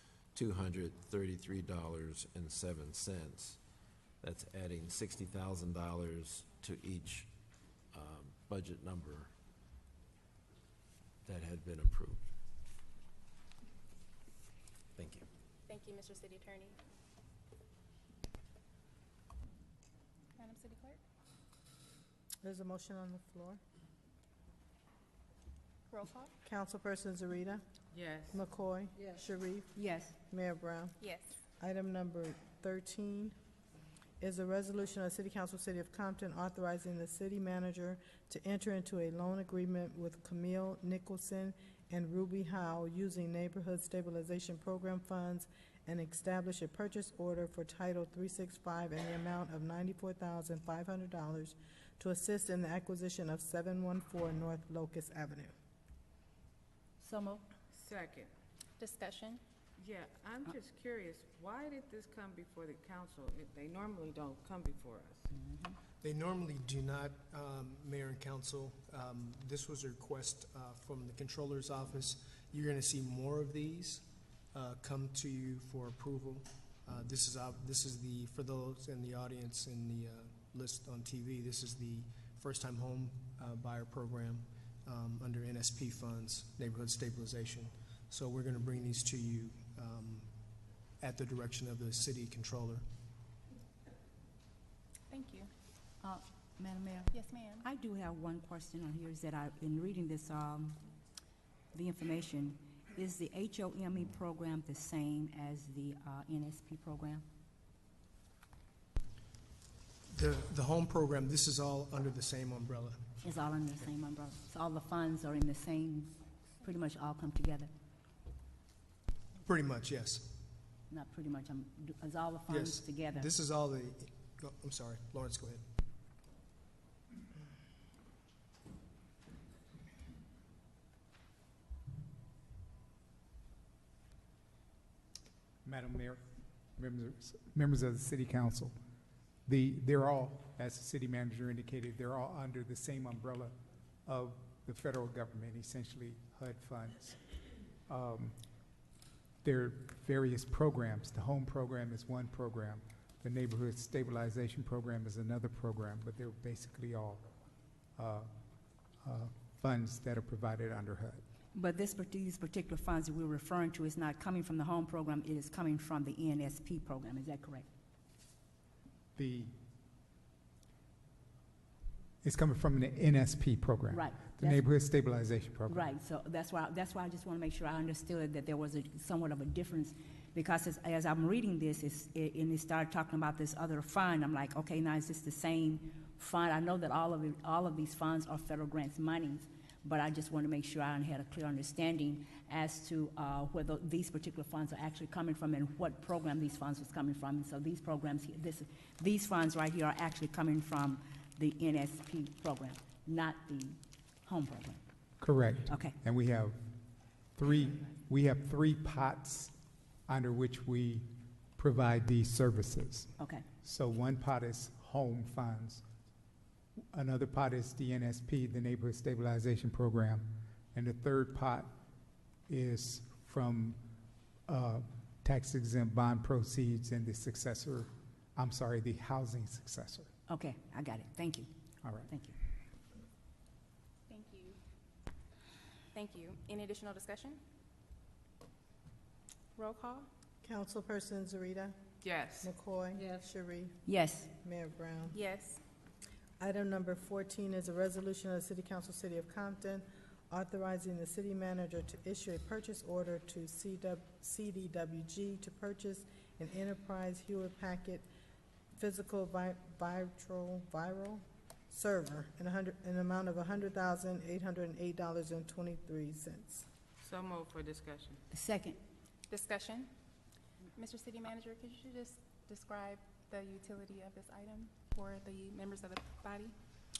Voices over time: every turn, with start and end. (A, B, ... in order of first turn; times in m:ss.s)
0:00.3-0:03.6 A
0:04.2-0:07.3 A
0:07.9-0:09.3 A
0:11.2-0:12.2 A
0:15.0-0:15.3 A
0:15.7-0:16.8 B
0:20.4-0:21.0 B
0:22.4-0:23.6 C
0:25.9-0:26.3 B
0:26.4-0:27.6 C
0:27.9-0:28.3 D
0:28.3-0:29.7 C
0:29.7-0:30.2 E
0:30.3-0:31.0 C
0:31.0-0:31.4 B
0:31.6-0:33.3 C
0:34.2-0:55.5 C
0:57.0-0:57.4 E
0:57.7-0:58.3 D
0:58.8-0:59.4 B
0:59.8-1:05.2 D
1:05.4-1:05.7 E
1:06.0-1:30.3 F
1:31.0-1:32.8 F
1:35.1-1:35.5 B
1:36.0-1:40.8 E
1:37.1-1:37.6 B
1:41.7-1:47.2 E
1:50.1-1:53.0 F
1:53.2-1:57.7 E
1:59.4-2:00.3 F
2:00.9-2:03.3 E
2:02.5-2:05.6 F
2:15.6-2:16.2 G
2:16.8-2:18.8 G
2:19.4-2:27.2 G
2:27.9-2:28.3 G
2:29.4-2:37.2 G
2:38.0-2:38.3 G
2:39.0-2:41.2 G
2:41.5-2:47.7 E
2:49.2-2:49.5 G
2:52.2-2:55.9 G
2:53.9-2:54.6 E
2:55.7-3:24.8 E
3:25.2-3:26.6 G
3:25.7-3:25.9 E
3:27.4-3:29.5 G
3:30.1-3:33.1 G
3:33.2-3:33.4 E
3:33.6-3:35.8 G
3:36.9-3:41.7 G
3:42.5-3:43.8 G
3:44.5-3:50.1 G
3:50.3-3:51.5 E
3:51.8-3:52.1 G
3:52.1-3:52.3 E
3:54.1-3:54.6 B
3:55.9-3:57.4 B
3:59.6-4:00.1 B
4:00.4-4:01.8 C
4:02.0-4:02.5 D
4:02.4-4:03.8 C
4:03.8-4:04.3 E
4:04.4-4:05.2 C
4:05.1-4:05.6 B
4:06.4-4:18.0 C
4:18.7-4:26.6 C
4:27.0-4:28.2 D
4:28.3-4:28.8 E
4:29.3-4:29.9 B
4:30.7-4:36.5 B